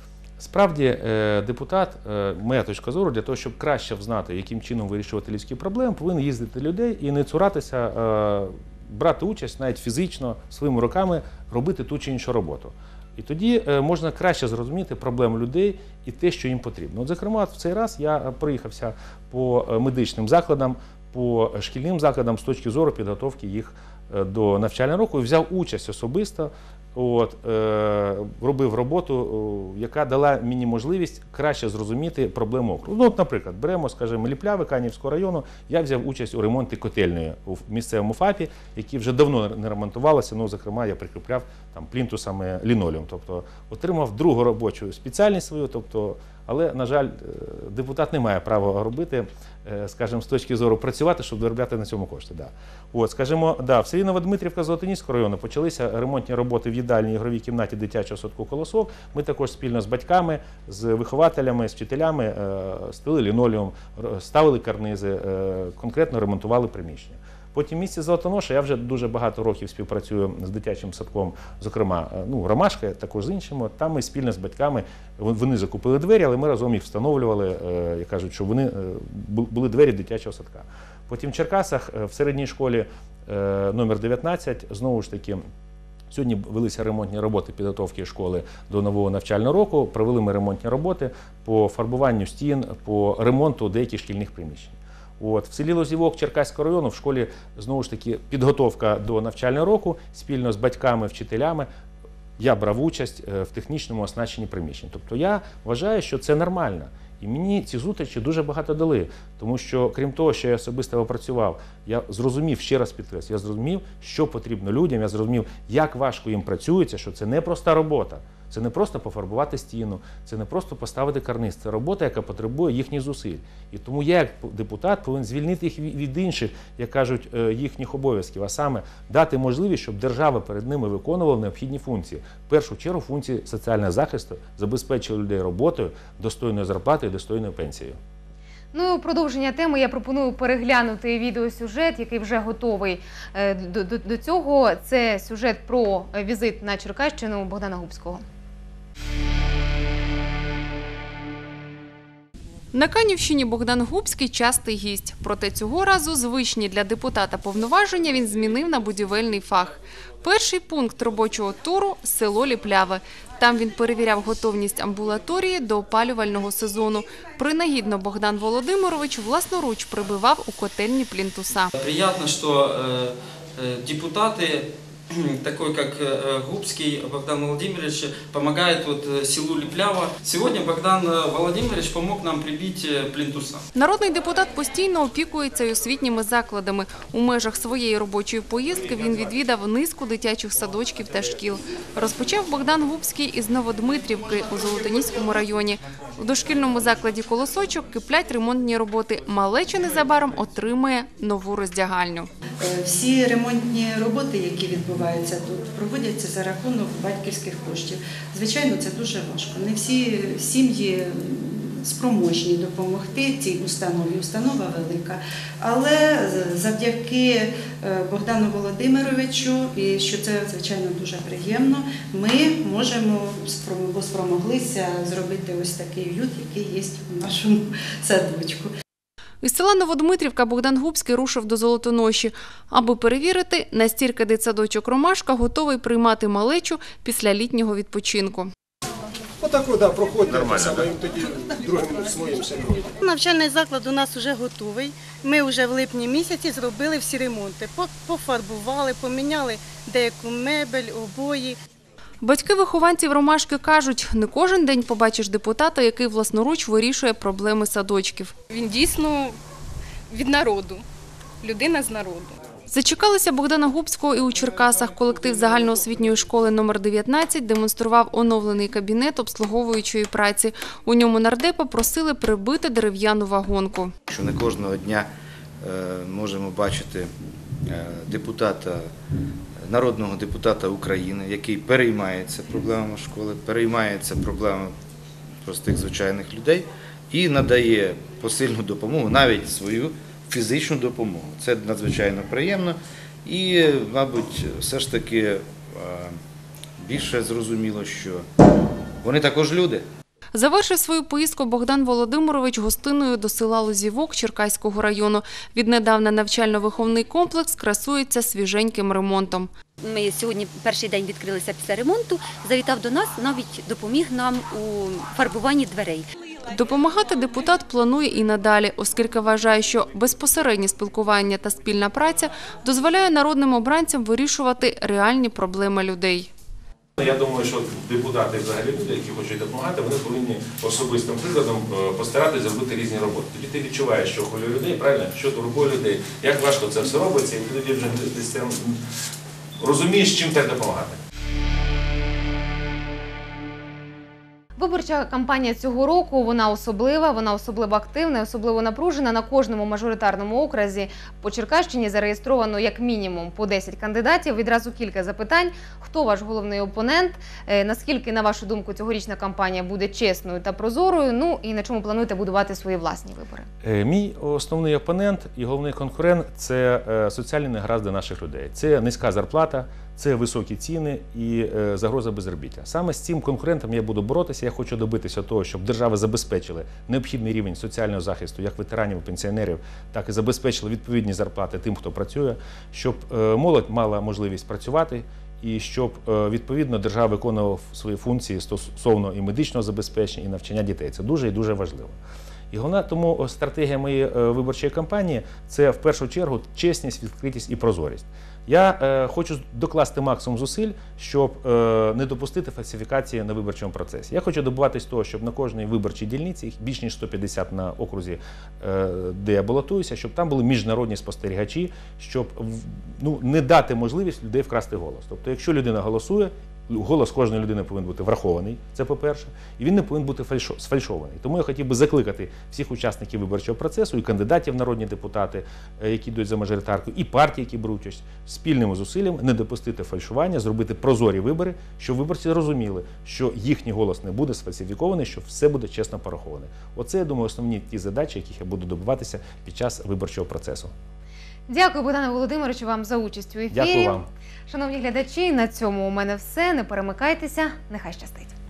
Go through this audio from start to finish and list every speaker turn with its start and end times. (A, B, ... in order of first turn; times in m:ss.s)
0:00.4-1:25.4 A
1:26.1-1:41.7 A
1:42.4-2:18.0 A
2:18.7-2:28.2 B
2:32.7-2:51.7 C
2:51.7-3:03.6 D
3:03.7-3:22.3 C
3:22.6-3:48.7 E
3:49.4-3:58.5 C
3:59.4-4:02.9 F
4:00.3-4:00.8 G
4:03.0-4:11.6 H
4:12.2-4:18.3 C
4:18.5-4:19.4 I
4:20.1-4:20.8 I
4:21.4-4:22.4 I
4:22.7-4:33.9 C
4:34.1-4:35.1 G
4:35.6-4:37.1 G
4:37.6-4:38.9 G
4:39.6-4:44.7 G
4:45.4-4:56.2 G
4:56.8-4:58.2 G
4:59.0-4:59.8 G
5:00.3-5:09.5 C
5:09.8-5:16.0 J
5:16.5-5:26.3 C
5:27.0-5:38.8 A
5:39.6-5:41.0 A
5:44.6-6:03.5 B
6:03.6-6:32.0 A
6:32.5-7:20.7 A
7:21.5-7:28.3 B
7:23.5-7:24.1 A